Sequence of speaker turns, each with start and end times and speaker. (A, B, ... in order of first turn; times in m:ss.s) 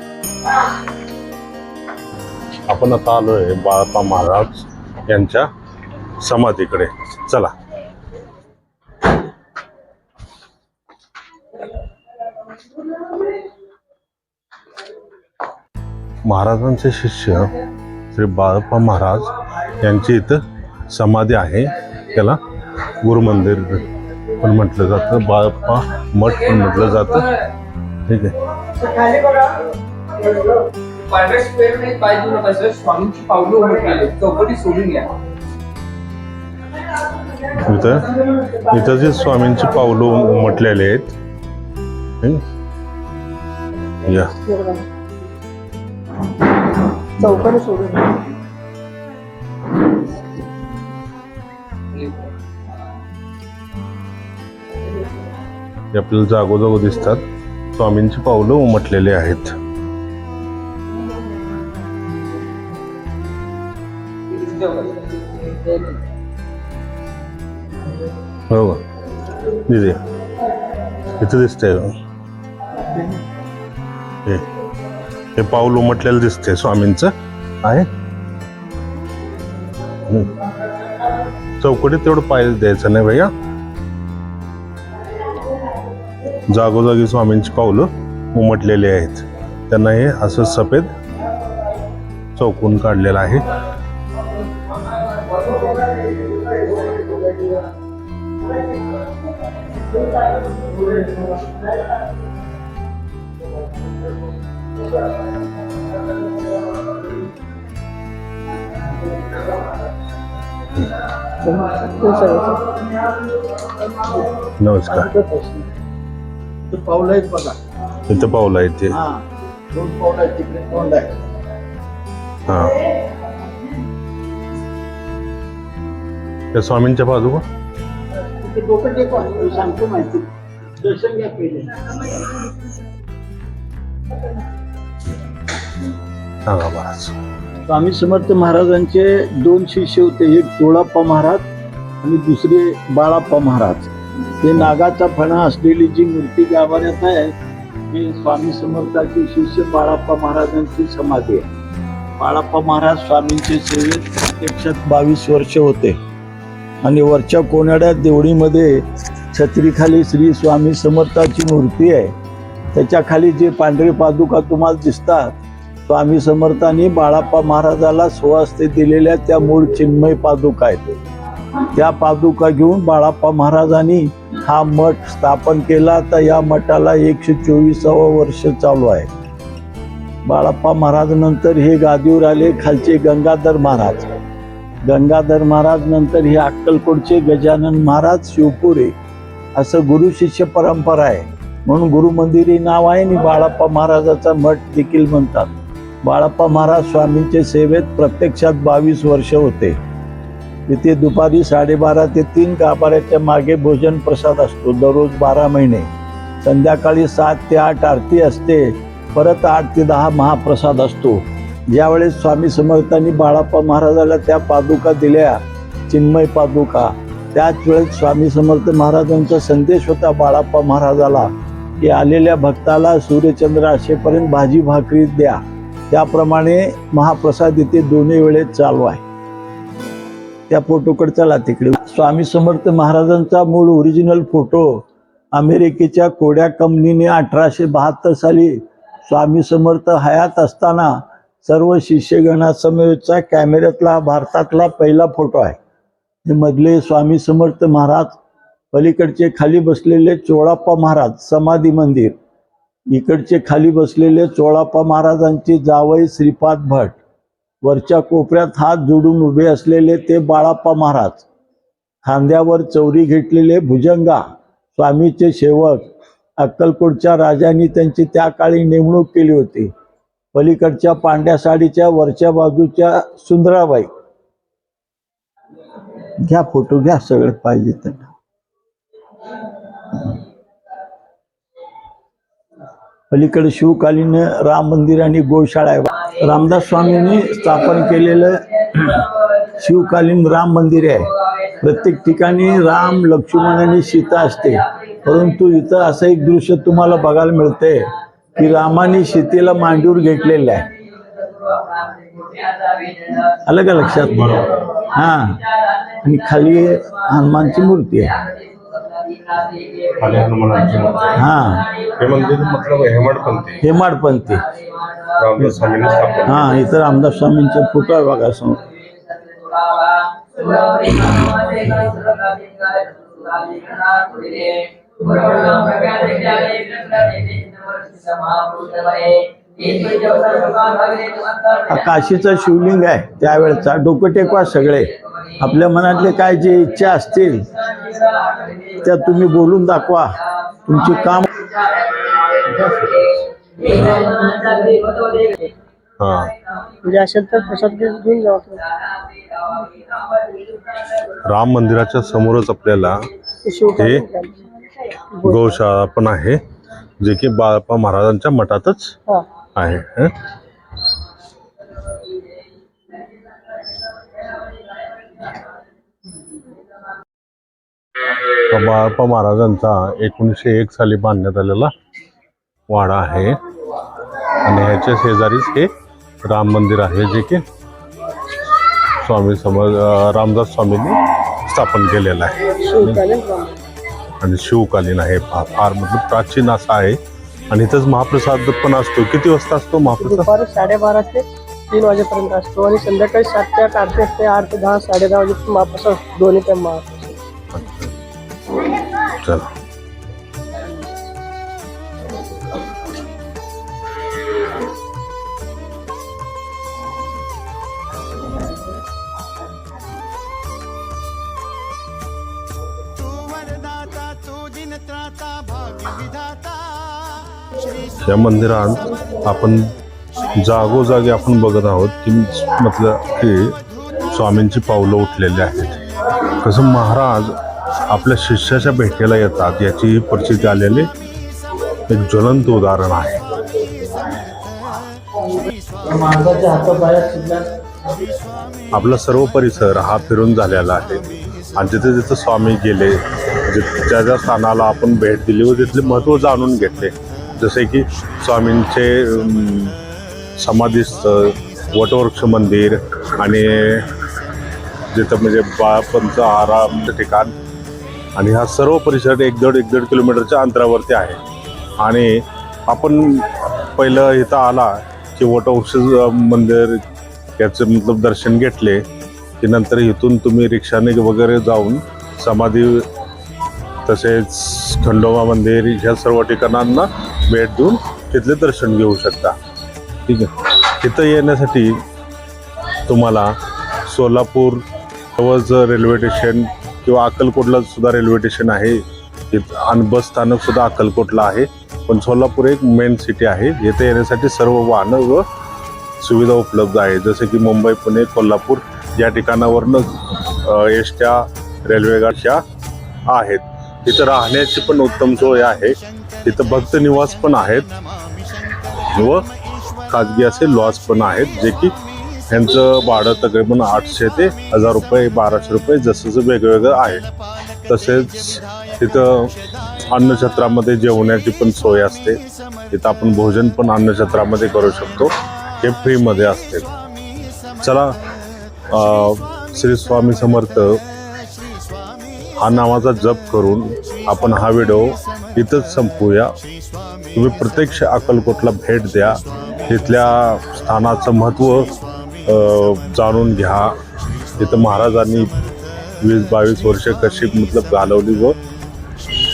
0:02.7-0:05.5 A
0:06.2-0:07.5 A
0:16.2-0:17.5 A
0:18.1-0:22.4 A
0:23.0-0:23.9 A
0:24.4-0:27.4 A
0:28.1-0:28.4 A
0:31.2-0:35.1 B
0:37.6-0:41.1 A
0:44.0-0:44.3 A
0:44.4-0:44.8 C
0:47.2-0:48.2 C
0:55.9-0:57.2 A
0:57.7-0:59.6 A
1:04.3-1:05.0 B
1:08.5-1:08.8 A
1:09.7-1:10.0 A
1:11.2-1:11.9 A
1:15.4-1:17.1 A
1:17.6-1:17.9 A
1:20.1-1:20.5 A
1:21.6-1:23.3 A
1:26.5-1:30.9 A
1:32.4-1:33.5 A
1:51.4-1:52.8 C
1:54.6-1:55.1 A
1:54.9-1:55.6 D
1:56.7-1:57.6 D
1:58.1-1:58.9 A
1:58.9-2:01.1 D
2:02.5-2:02.8 A
2:06.5-2:07.4 A
2:08.4-2:10.2 D
2:10.8-2:12.0 D
2:16.4-2:17.1 A
2:17.7-2:21.4 D
2:22.0-2:27.3 D
2:27.9-2:31.5 D
2:32.2-2:36.0 D
2:36.8-2:42.1 D
2:42.7-2:50.9 D
2:51.7-2:59.1 D
3:00.2-3:04.0 D
3:04.8-3:08.9 D
3:09.6-3:15.5 D
3:16.0-3:19.8 D
3:20.7-3:25.9 D
3:26.4-3:49.0 D
3:50.5-4:05.6 D
4:06.2-4:08.2 D
4:08.7-4:12.2 D
4:12.9-4:17.0 D
4:17.6-4:21.3 D
4:22.0-4:24.2 D
4:24.7-4:25.8 D
4:26.4-4:29.7 D
4:30.3-4:33.9 D
4:36.2-4:38.1 D
4:43.1-4:49.0 D
4:49.6-5:00.7 D
5:03.4-5:05.4 D
5:04.2-5:04.5 A
5:06.0-5:08.1 D
5:09.9-5:11.2 A
5:11.1-5:11.8 D
5:12.0-5:13.6 A
5:13.6-5:14.4 D
5:15.2-5:16.5 A
5:16.2-5:18.6 D
5:21.2-5:21.7 A
5:31.6-5:37.5 D
5:38.7-5:40.1 D
5:40.6-5:41.5 D
5:44.2-5:45.5 C
5:46.0-5:46.3 A
5:46.8-5:48.7 C
5:51.2-5:53.1 A
5:53.4-5:54.4 C
5:53.8-5:54.0 A
5:55.1-5:55.5 C
5:55.2-5:56.4 A
5:57.0-5:58.9 A
5:59.5-6:00.1 A
6:08.5-6:11.7 A
6:12.7-6:13.4 A
6:14.4-6:15.7 A
6:16.2-6:17.4 A
6:19.0-6:23.0 A
6:22.6-6:23.6 C
6:24.2-6:27.0 A
6:27.5-6:30.3 A
6:29.9-6:37.2 C
6:37.5-6:37.9 A
6:39.2-6:39.5 A
6:58.0-6:59.6 A
7:00.4-7:03.6 A
7:04.1-7:05.8 A
7:06.4-7:07.3 A
7:07.9-7:10.9 A
7:11.9-7:13.4 A
7:15.8-7:17.5 D
7:18.7-7:21.0 A
7:21.5-7:29.8 A
7:30.4-7:33.9 A
7:34.9-7:37.3 A
7:38.2-7:41.2 A
7:41.8-7:46.8 A
7:47.4-7:48.8 A
7:49.4-7:52.8 A
7:53.8-7:59.3 A
8:00.0-8:01.8 A
8:02.9-8:03.3 A
8:03.8-8:04.6 A
8:05.2-8:15.2 A
8:16.0-8:22.4 A
8:23.1-8:27.7 A
8:28.9-8:29.2 A
8:29.9-8:31.7 A
8:32.3-8:37.0 A
8:37.7-8:39.3 A
8:39.9-8:42.2 A
8:42.7-8:46.6 A
8:47.6-8:47.9 A
8:48.7-8:50.8 A
8:52.4-8:56.3 A
8:57.1-9:01.7 A
9:02.2-9:03.7 A
9:04.4-9:05.3 A
9:06.0-9:08.4 A